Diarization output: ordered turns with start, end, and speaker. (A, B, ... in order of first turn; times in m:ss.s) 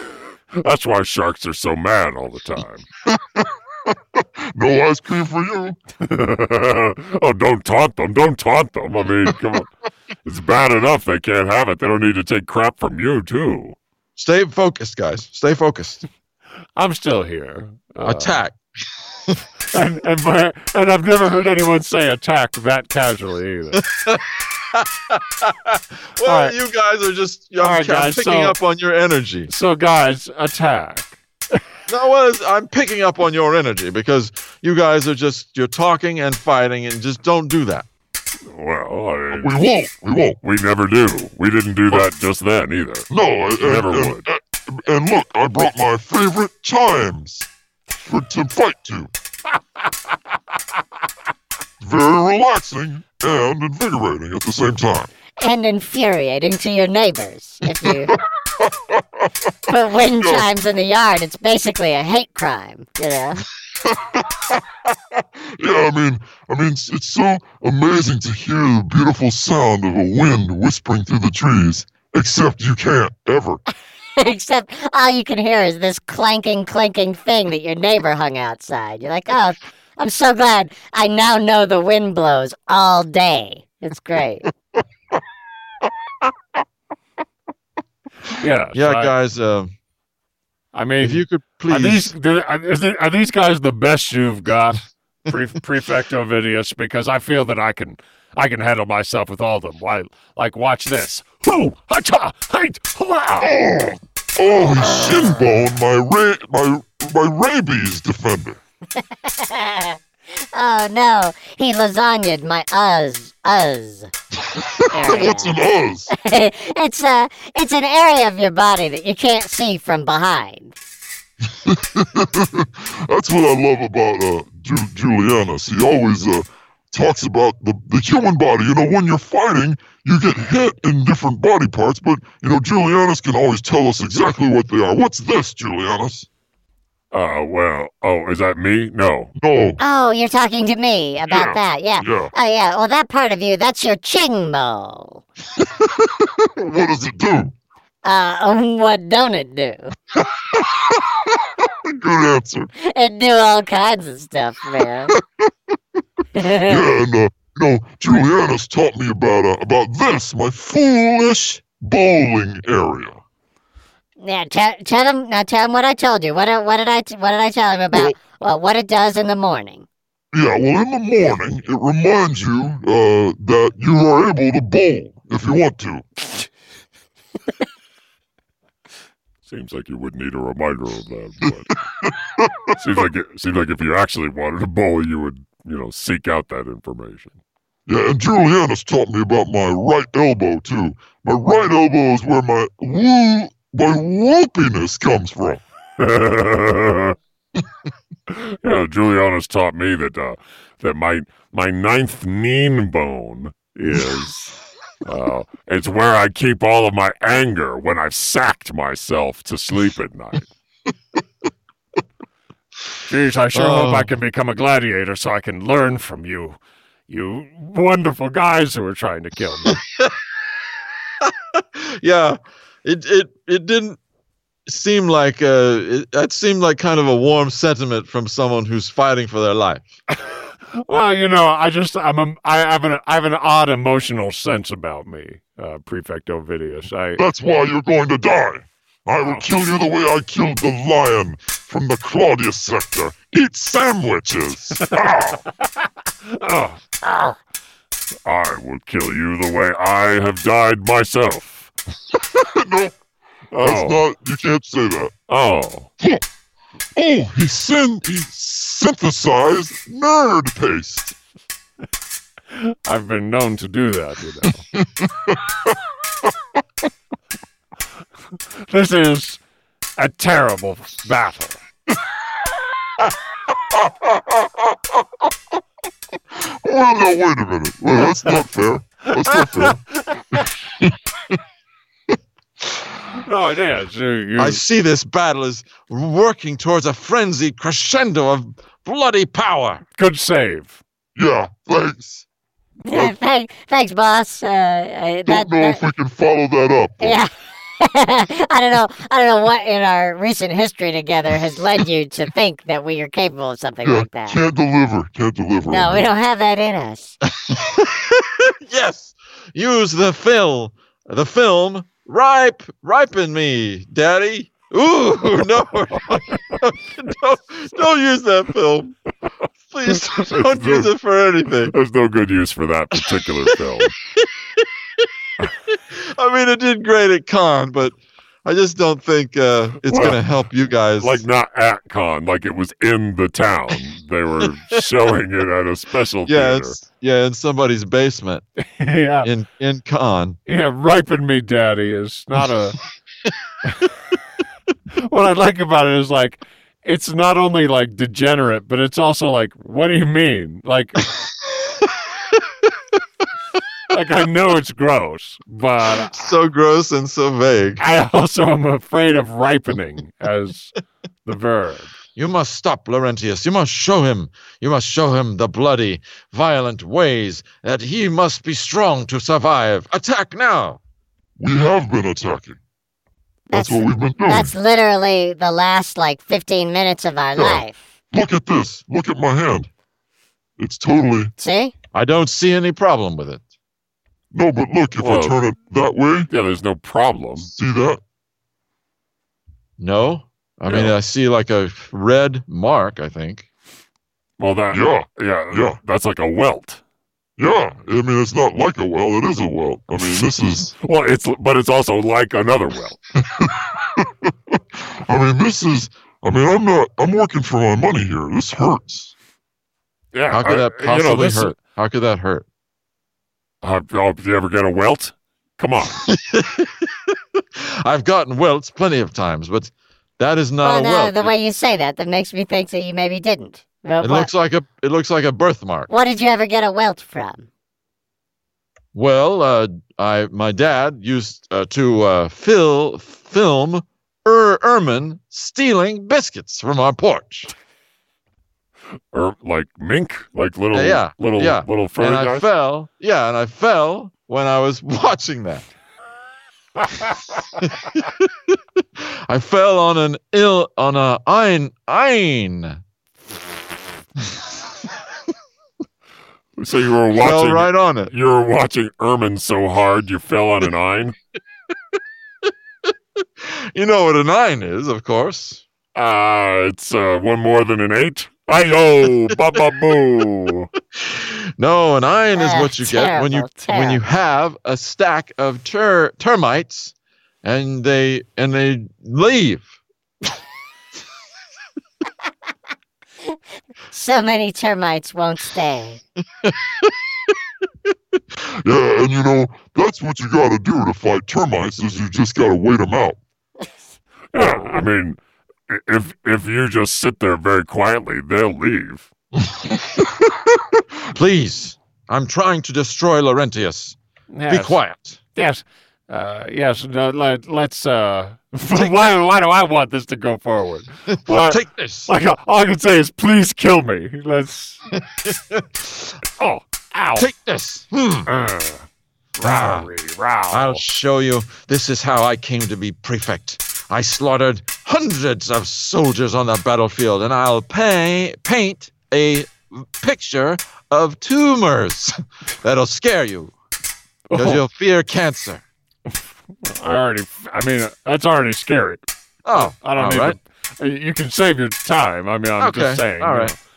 0:00.6-0:02.9 A
0:03.1-0:05.8 B
0:06.0-0:09.7 A
0:10.2-0:13.8 A
0:14.2-0:16.0 C
0:16.8-0:18.4 D
0:18.0-0:18.6 C
0:19.7-0:23.8 D
0:23.8-0:29.5 C
0:26.2-0:26.5 D
0:27.6-0:28.6 D
0:29.5-0:31.2 D
0:31.9-0:37.8 C
0:38.5-0:39.6 A
0:39.3-0:40.4 B
0:40.4-0:44.2 A
0:43.1-0:47.5 B
0:48.0-0:49.1 B
0:51.8-0:55.1 B
0:55.4-0:58.2 E
0:58.1-0:59.3 B
0:59.7-1:03.4 E
1:00.1-1:00.5 B
1:03.8-1:04.6 B
1:05.6-1:13.6 B
1:14.2-1:24.5 E
1:28.4-1:29.1 D
1:28.7-1:29.7 C
1:30.7-1:43.5 D
1:31.0-1:32.1 C
1:43.4-1:48.6 B
1:49.0-1:50.0 E
1:50.5-1:54.1 E
1:54.5-1:56.1 B
1:54.9-1:55.6 E
1:56.1-2:00.7 E
2:01.6-2:16.3 B
2:17.1-2:19.3 A
2:19.4-2:19.8 B
2:19.8-2:25.2 E
2:21.3-2:22.3 B
2:25.6-2:27.5 B
2:28.0-2:29.9 E
2:30.2-2:32.7 B
2:32.8-2:35.1 E
2:35.1-2:35.5 B
2:36.4-2:36.9 E
2:36.5-2:43.2 B
2:44.2-2:49.9 E
2:50.3-2:56.0 B
2:59.4-3:01.7 A
3:01.7-3:02.8 B
3:02.8-3:07.4 A
3:07.8-3:15.6 B
3:16.0-3:17.2 A
3:18.3-3:24.2 A
3:23.8-3:24.5 D
3:25.0-3:30.5 A
3:33.0-3:39.8 D
3:33.5-3:34.1 C
3:39.7-3:40.1 C
3:41.2-3:44.0 C
3:44.6-3:49.9 C
3:50.8-3:57.2 D
3:57.2-4:05.4 B
4:06.2-4:07.4 D
4:08.2-4:11.7 A
4:12.2-4:12.9 B
4:13.5-4:14.0 A
4:13.6-4:15.1 B
4:15.3-4:15.9 A
4:17.0-4:21.1 B
4:22.5-4:24.6 D
4:24.8-4:25.7 B
4:28.7-4:29.4 D
4:30.0-4:31.6 D
4:33.7-4:34.6 B
4:36.4-4:39.8 B
4:39.2-4:40.4 D
4:40.3-4:41.4 B
4:43.2-4:44.6 D
4:44.4-4:49.8 C
4:50.0-4:50.8 D
4:51.2-4:52.2 B
4:52.8-4:55.8 E
4:55.2-4:57.2 B
4:57.0-5:04.4 E
5:03.8-5:06.1 B
5:05.7-5:07.2 E
5:07.4-5:19.0 C
5:19.7-5:21.7 C
5:20.2-5:20.9 A
5:21.6-5:24.0 A
5:24.2-5:25.1 C
5:25.9-5:31.2 C
5:29.8-5:30.2 A
5:31.0-5:36.8 A
5:36.2-5:38.4 C
5:38.6-5:39.3 D
5:39.2-5:40.4 C
5:40.4-5:42.8 D
5:45.0-5:51.1 D
5:53.9-5:56.3 D
5:55.9-5:57.8 C
5:57.8-6:01.9 D
6:02.2-6:10.8 C
6:11.4-6:12.6 B
6:13.5-6:17.8 E
6:13.5-6:14.5 B
6:17.3-6:19.7 B
6:20.6-6:21.3 B
6:21.4-6:21.7 E
6:21.9-6:23.4 C
6:24.3-6:26.3 B
6:25.0-6:25.4 A
6:26.3-6:27.5 A
6:27.4-6:28.0 B
6:29.8-6:33.5 C
6:30.7-6:30.9 A
6:34.4-6:36.8 A
6:34.7-6:35.8 B
6:37.4-6:40.7 B
6:40.8-6:43.0 A
6:43.2-6:49.1 B
6:50.1-6:51.6 A
6:50.3-6:52.4 C
6:53.6-6:56.0 A
6:56.0-7:01.3 C
7:00.6-7:04.3 E
7:04.0-7:05.9 C
7:05.9-7:07.5 E
7:08.9-7:17.5 C
7:19.1-7:22.5 A
7:20.7-7:25.6 C
7:27.6-7:32.8 C
7:36.6-7:41.2 A
7:37.1-7:38.1 C
7:43.4-7:45.6 C
7:45.9-7:50.7 A
7:50.9-7:59.7 C
7:52.3-7:54.0 E
8:03.9-8:06.0 E
8:06.4-8:06.7 C
8:08.4-8:13.2 B
8:14.3-8:14.8 D
8:14.3-8:19.1 A
8:19.5-8:20.2 B
8:21.1-8:24.0 C
8:24.3-8:24.8 D
8:24.5-8:25.2 C
8:25.3-8:34.8 D
8:31.1-8:32.1 C
8:35.0-8:36.1 C
8:36.4-8:37.3 D
8:37.2-8:38.3 C
8:38.2-8:40.8 D
8:39.4-8:39.9 C
8:40.5-8:53.5 C
8:54.3-8:54.6 D
8:54.3-8:55.6 C
8:56.6-9:03.6 D
8:59.4-9:00.4 C
9:02.6-9:03.6 C